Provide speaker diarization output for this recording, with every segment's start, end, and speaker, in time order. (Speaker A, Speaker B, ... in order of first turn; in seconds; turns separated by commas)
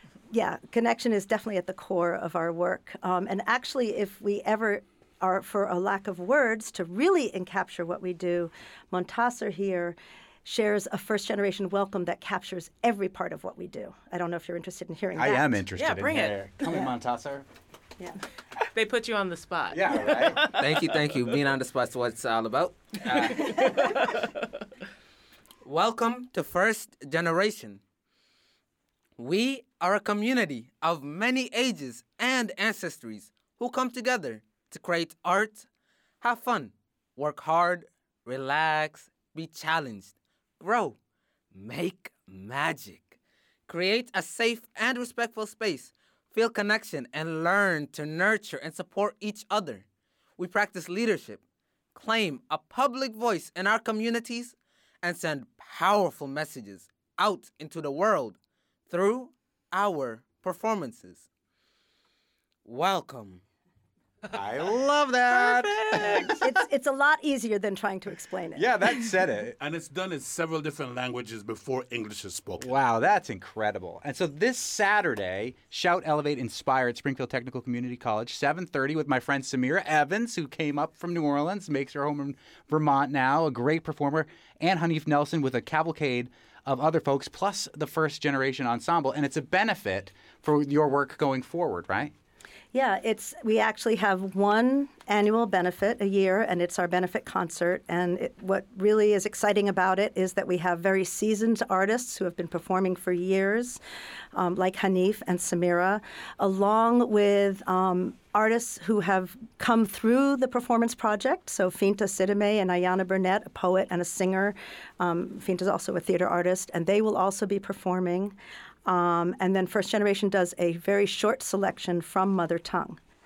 Speaker A: 0.3-15.6, Speaker B: 15.1-17.4, Speaker C: 15.7-16.4, Speaker C: 18.7-20.6, Speaker B: 19.7-20.5, Speaker D: 20.6-24.0, Speaker C: 23.1-24.2, Speaker D: 25.6-27.8, Speaker D: 29.2-35.7, Speaker D: 36.2-41.0, Speaker D: 41.5-43.1, Speaker D: 43.7-49.8, Speaker D: 50.4-51.4, Speaker D: 51.9-58.4, Speaker D: 58.9-61.3, Speaker D: 62.6-63.4, Speaker B: 64.3-66.6, Speaker C: 65.3-66.3, Speaker A: 66.4-68.7, Speaker B: 68.5-69.5, Speaker E: 69.6-72.7, Speaker B: 72.6-92.1, Speaker A: 92.7-103.8, Speaker A: 104.3-118.3, Speaker A: 118.8-123.0